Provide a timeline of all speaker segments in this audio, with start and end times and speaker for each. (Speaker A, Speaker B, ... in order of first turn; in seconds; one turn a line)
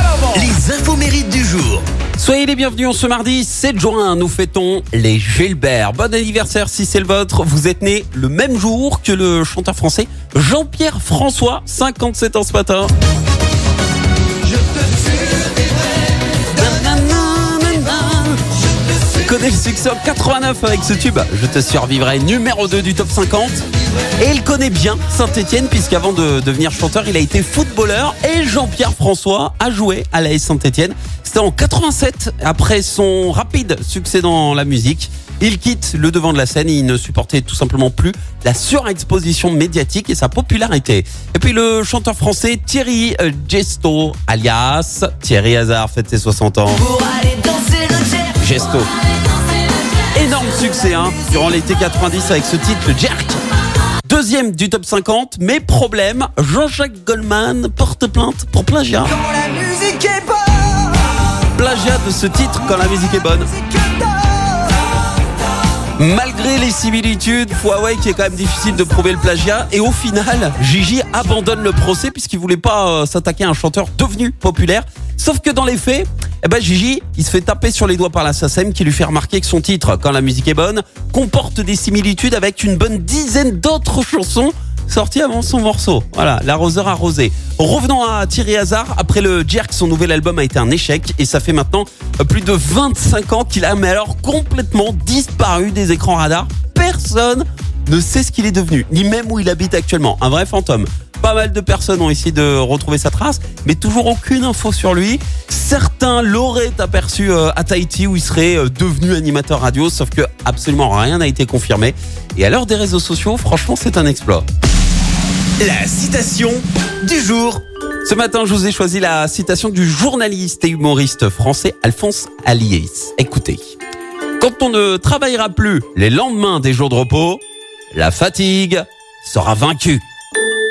Speaker A: 0.2-1.8
Speaker B: 2.2-12.9
Speaker B: 16.5-18.5
Speaker B: 19.1-23.6
Speaker B: 24.2-46.9
Speaker C: 46.8-48.3
Speaker B: 48.3-48.9
Speaker B: 50.1-53.4
Speaker B: 54.0-59.2
Speaker C: 59.3-60.8
Speaker B: 61.5-63.5
Speaker B: 66.0-114.4
Speaker A: 115.6-117.6
Speaker B: 118.0-123.7
Speaker B: 124.4-127.4
Speaker B: 127.9-130.0